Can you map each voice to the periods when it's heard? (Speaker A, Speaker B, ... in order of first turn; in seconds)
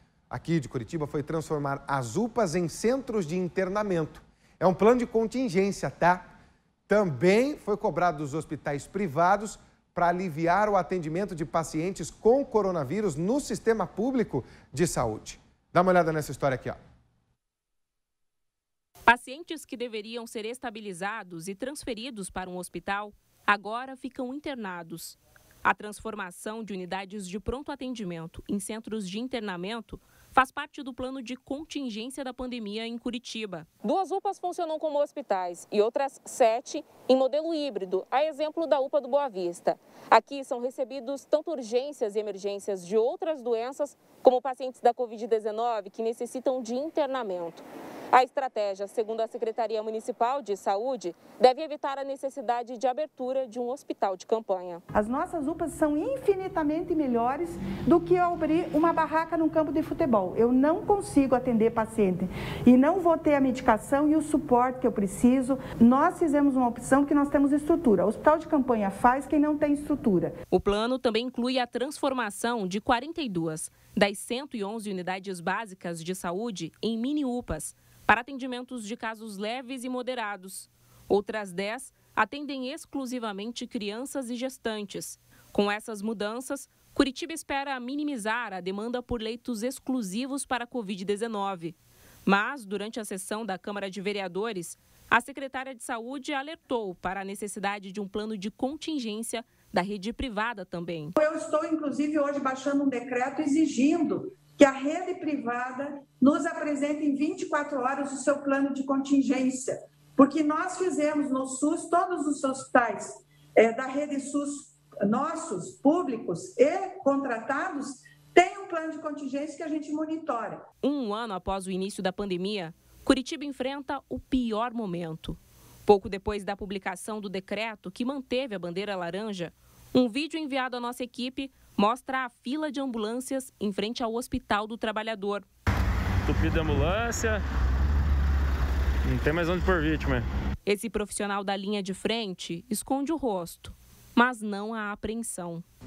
Speaker A: 0.3-6.3, 6.9-16.8
Speaker B: 19.1-54.8, 70.5-101.2, 120.8-135.4, 140.7-145.6
Speaker C: 54.9-70.3, 101.2-120.6
Speaker D: 136.2-137.4, 139.1-140.2